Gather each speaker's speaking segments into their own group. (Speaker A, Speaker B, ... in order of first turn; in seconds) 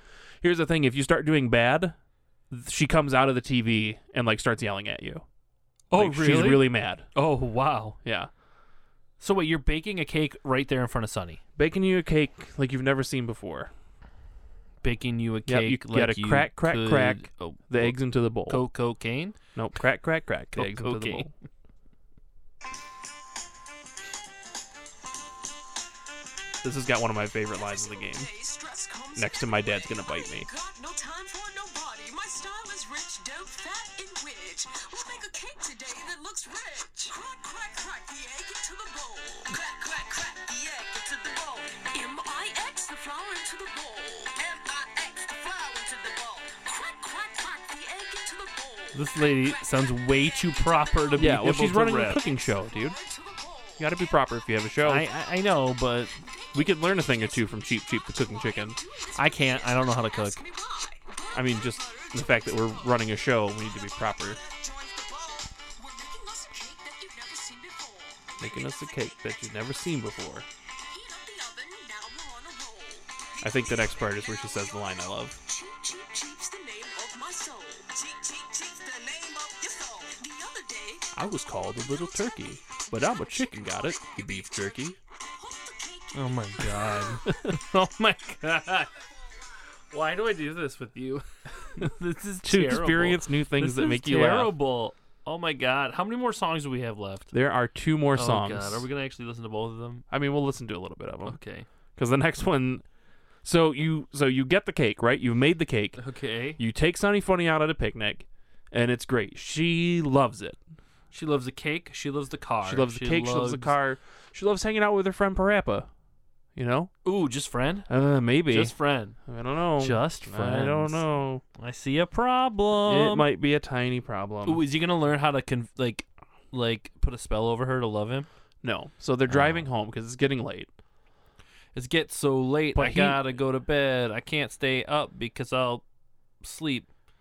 Speaker A: 0.4-1.9, 2.5-5.2, 5.9-7.0, 8.0-8.3, 11.6-13.7, 15.5-18.6, 19.5-21.3, 26.6-28.3, 29.1-30.5, 51.1-53.0, 53.8-55.0, 56.5-58.8, 61.3-64.4, 68.4-70.5, 73.4-75.4, 81.1-85.0, 92.4-94.5, 97.3-98.9, 100.1-101.4, 102.0-102.8, 103.4-106.0, 106.6-110.6, 112.6-115.9, 116.5-116.9, 117.9-121.4, 122.8-124.6, 128.6-130.7, 132.7-133.2
Speaker B: 5.9-8.0, 9.2-11.4, 14.8-19.4, 20.5-21.3, 48.9-52.2, 54.8-56.1, 59.1-60.4, 86.1-88.9, 89.9-97.3, 98.1-100.0, 101.2-101.7, 106.0-106.6, 111.1-113.8, 117.0-117.9, 118.5-119.2, 119.8-121.0, 121.6-123.3, 124.4-128.3, 129.3-129.7, 131.7-135.8, 136.4-136.9
Speaker C: 27.5-51.3, 51.9-54.1, 56.2-69.7, 70.9-81.1, 82.7-86.8